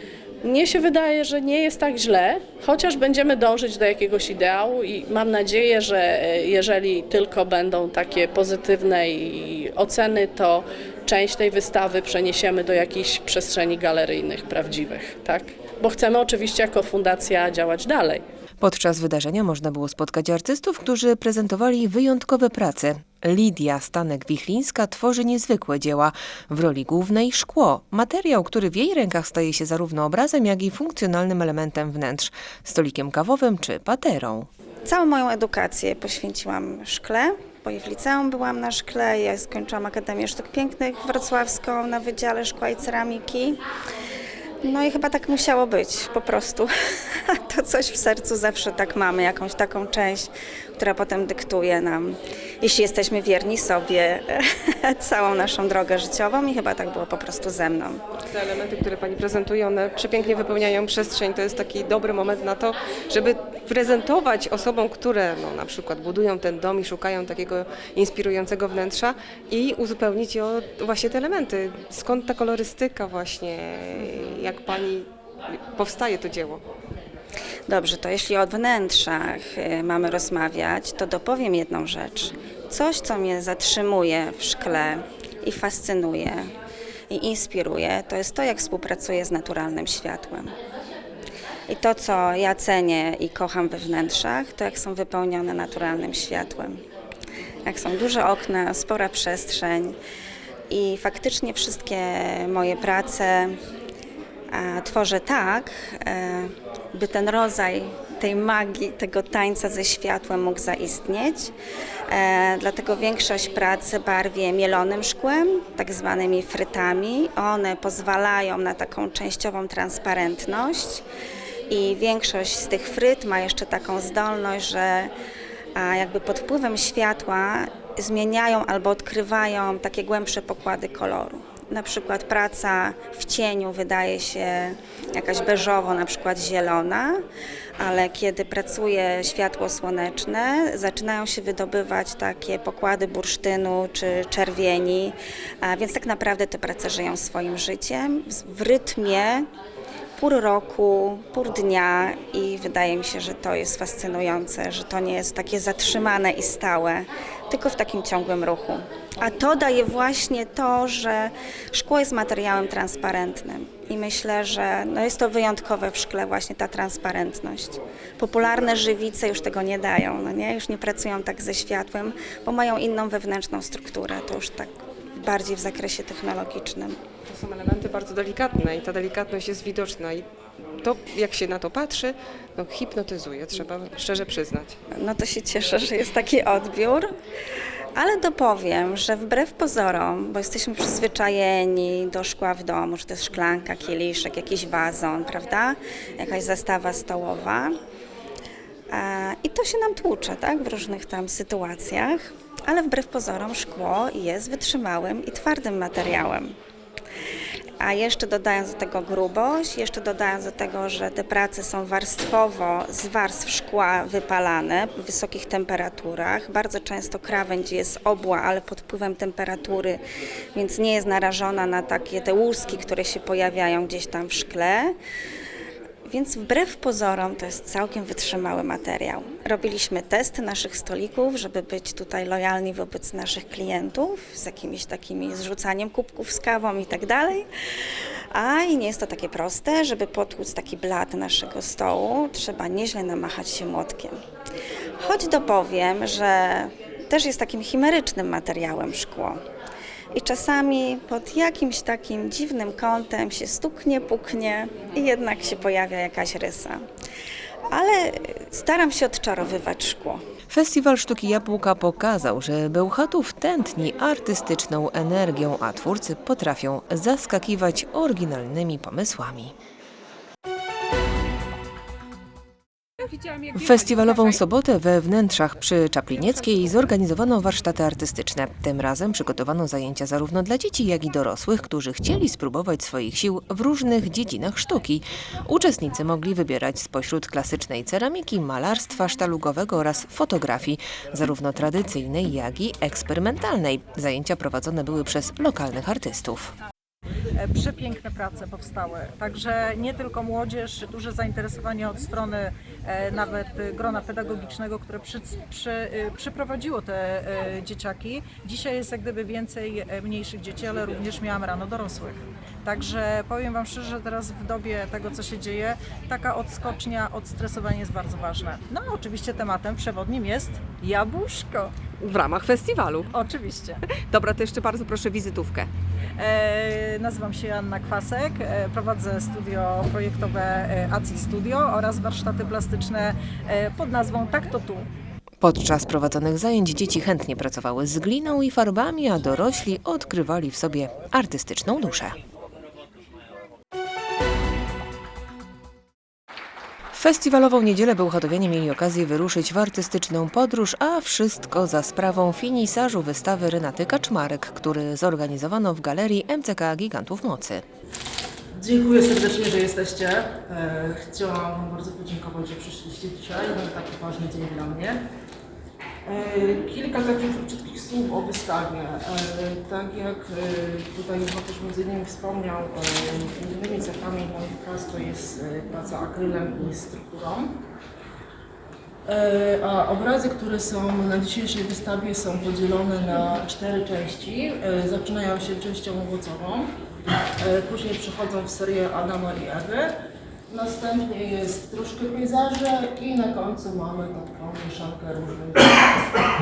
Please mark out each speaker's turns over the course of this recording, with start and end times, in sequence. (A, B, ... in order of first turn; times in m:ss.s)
0:00.4-0:18.2 A
0:18.6-0:34.5 B
0:34.8-0:43.6 C
0:44.6-0:58.0 C
0:58.2-1:16.6 D
1:17.7-1:26.5 C
1:27.1-1:30.5 C
1:31.7-1:36.8 C
1:37.6-1:40.0 C
1:40.7-1:43.6 C
1:44.5-1:51.5 C
1:52.1-2:01.0 C
2:01.7-2:05.1 C
2:05.8-2:17.2 C
2:17.8-2:29.5 C
2:30.2-2:57.0 C
2:57.2-3:04.8 D
3:04.9-3:07.1 C
3:08.0-3:17.8 C
3:18.9-3:26.5 C
3:27.8-3:40.0 C
3:40.5-3:44.9 C
3:46.1-3:57.5 C
3:58.3-4:04.2 C
4:05.0-4:09.4 C
4:10.1-4:16.8 C
4:17.7-4:20.2 C
4:20.5-4:29.5 B
4:33.5-4:56.5 B
4:57.4-5:21.7 E
5:22.0-5:23.1 D
5:23.1-5:23.8 E
5:24.0-5:25.7 D
5:26.2-5:34.8 E
5:35.4-5:42.2 B
5:46.9-5:57.6 B
5:58.5-6:05.0 F
6:06.0-6:17.6 F
6:19.0-6:26.7 F
6:27.4-6:29.9 F
6:30.5-6:36.2 F